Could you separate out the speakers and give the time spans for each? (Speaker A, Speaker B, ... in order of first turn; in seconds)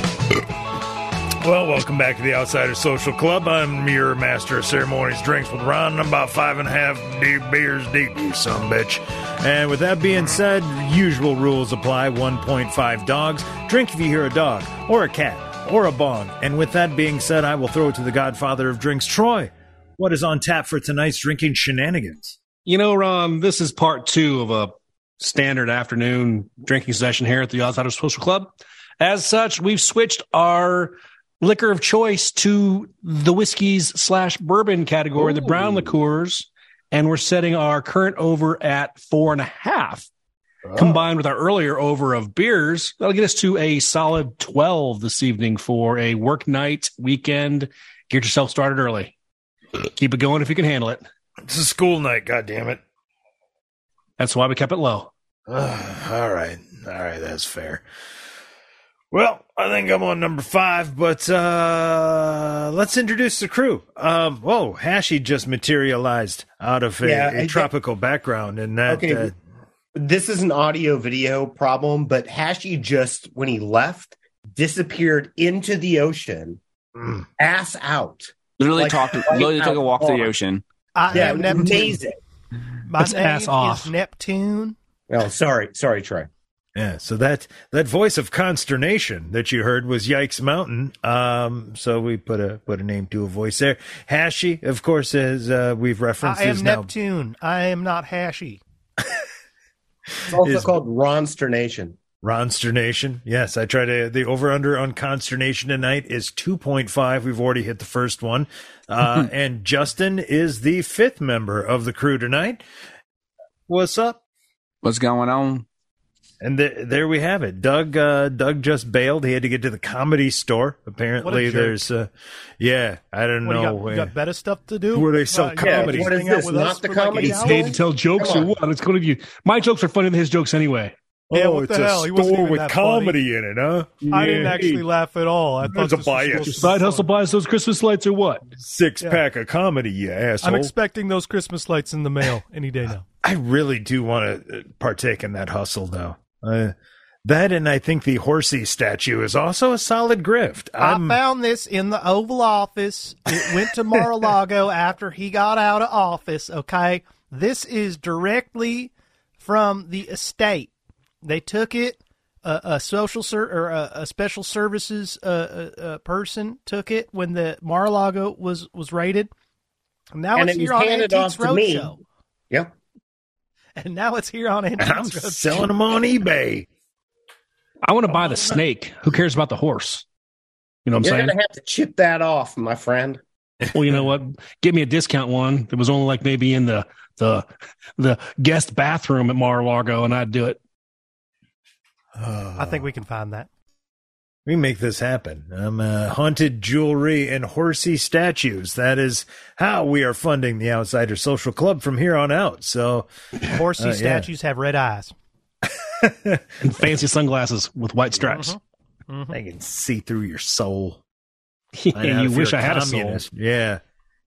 Speaker A: 1.4-22.4, 35.2-35.9, 40.7-41.1, 51.5-52.8, 55.5-57.8, 59.1-69.3, 77.0-77.3, 86.8-96.9, 100.3-100.8, 102.2-112.6, 113.7-114.2, 116.4-124.1, 124.9-126.2, 131.3-134.8, 135.7-136.7, 138.5-140.7, 143.2-151.2, 174.8-176.7, 192.2-192.9, 194.5-203.1, 203.8-204.3, 205.7-206.4, 209.3-211.0, 211.9-213.8
Speaker B: 22.7-40.1, 40.7-49.1, 50.0-51.0, 54.2-55.1, 83.0-83.9, 127.2-130.9, 136.4-138.4, 177.8-180.1, 180.8-181.3, 183.7-187.5, 188.0-190.6, 206.6-208.6, 211.7-213.2
Speaker C: 67.0-67.7, 68.9-69.3, 70.0-76.6, 77.4-80.3, 81.1-82.2, 85.1-86.3, 100.3-102.0, 125.6-128.6, 170.4-171.9, 181.0-183.2
Speaker D: 78.6-80.6, 114.8-115.7
Speaker E: 81.0-82.0, 82.8-84.8, 96.2-98.6, 121.2-121.8, 123.4-127.8, 131.3-133.2, 134.1-137.1, 140.4-143.1, 150.8-160.7, 161.2-169.3, 170.1-172.0, 173.8-175.7, 192.6-193.5, 203.5-205.1, 208.3-209.4